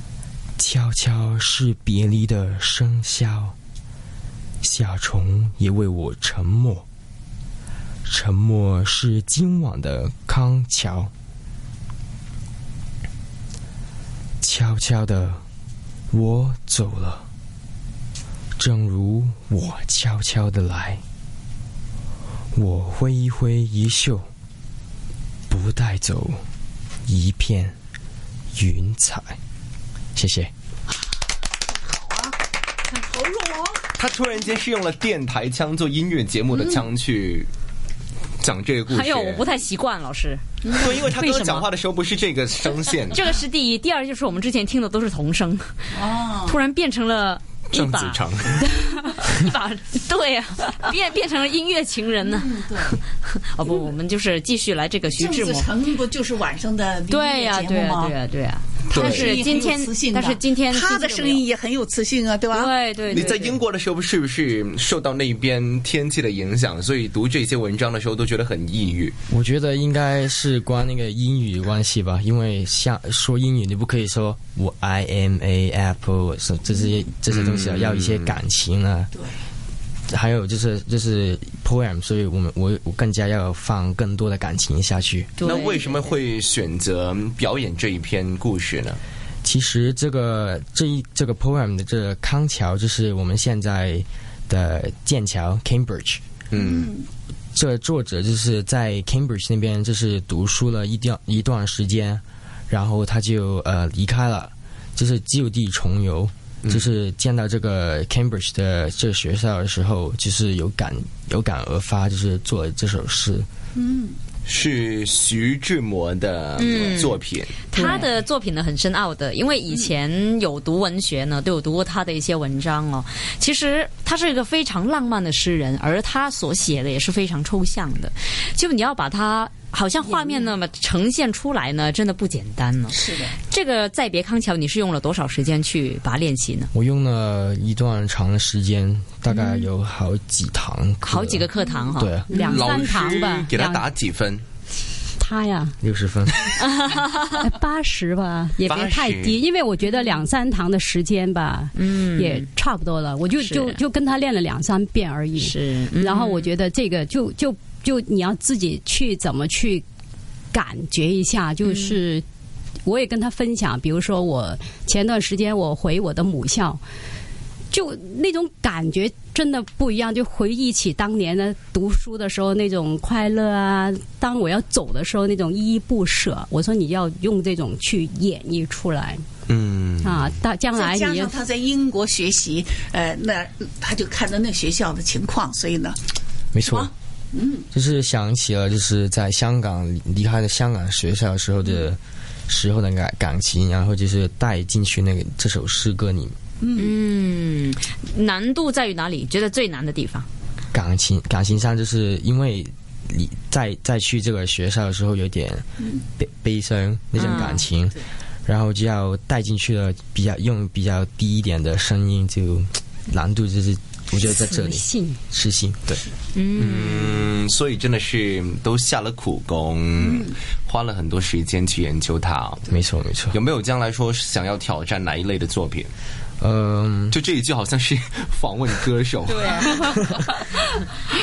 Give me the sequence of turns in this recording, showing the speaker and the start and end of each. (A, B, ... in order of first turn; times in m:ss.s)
0:00.6-0:03.6 A
0:04.6-0:06.8 A
0:08.1-0:11.1 A
0:14.4-0:15.4 A
0:16.1-0:17.3 A
0:18.6-0:21.0 A
0:22.5-0:24.3 A
0:25.5-0:26.4 A
0:27.1-0:27.8 A
0:28.6-0:29.4 A
0:30.2-0:30.5 A
0:31.7-0:32.4 B
0:32.9-0:33.9 B
0:34.0-0:37.5 C
0:36.5-0:36.8 B
0:38.4-0:39.4 C
0:38.9-0:40.4 D
0:40.6-0:40.9 B
0:40.7-0:43.2 C
0:40.9-0:41.7 D
0:43.1-0:45.7 D
0:45.9-0:46.6 B
0:46.5-0:55.7 D
0:47.7-0:48.7 C
0:52.2-0:53.0 B
0:55.2-0:58.2 B
0:57.1-1:01.4 D
0:58.9-1:02.7 B
0:58.9-0:59.3 C
1:02.5-1:03.6 D
1:03.1-1:09.2 C
1:09.3-1:19.1 A
1:17.3-1:18.4 C
1:20.1-1:25.3 A
1:25.4-1:25.9 D
1:25.4-1:29.0 C
1:29.4-1:36.2 A
1:36.5-1:36.9 C
1:36.6-1:37.1 B
1:37.5-1:53.5 A
1:53.8-1:54.2 B
1:54.5-1:57.7 C
1:56.6-1:57.2 D
1:57.7-2:16.7 D
1:57.8-1:58.1 B
2:12.9-2:13.4 B
2:16.7-2:22.3 A
2:19.3-2:19.7 D
2:21.0-2:22.6 D
2:22.3-2:23.8 E
2:22.4-2:24.4 C
2:25.2-2:25.8 E
2:25.8-2:26.6 A
2:26.6-2:27.2 D
2:27.3-2:39.8 E
2:28.6-2:29.0 D
2:28.7-2:29.4 C
2:31.8-2:32.5 D
2:33.4-2:33.8 D
2:35.4-2:36.5 D
2:40.5-2:42.2 E
2:41.6-2:42.0 D
2:42.8-2:46.8 E
2:47.7-2:59.2 E
2:59.5-3:00.3 C
3:00.0-3:01.4 E
3:00.7-3:06.0 B
3:06.5-3:06.9 A
3:06.6-3:07.7 B
3:07.7-3:16.4 A
3:16.6-3:16.9 B
3:16.8-3:20.3 D
3:20.7-3:25.6 A
3:26.2-3:36.0 A
3:27.2-3:27.6 D
3:34.3-3:35.2 E
3:36.3-3:37.2 D
3:36.6-3:42.7 C
3:40.0-3:40.3 B
3:42.7-3:43.4 A
3:43.3-3:45.9 C
3:46.4-3:47.2 A
3:47.1-3:49.7 C
3:49.3-3:50.1 D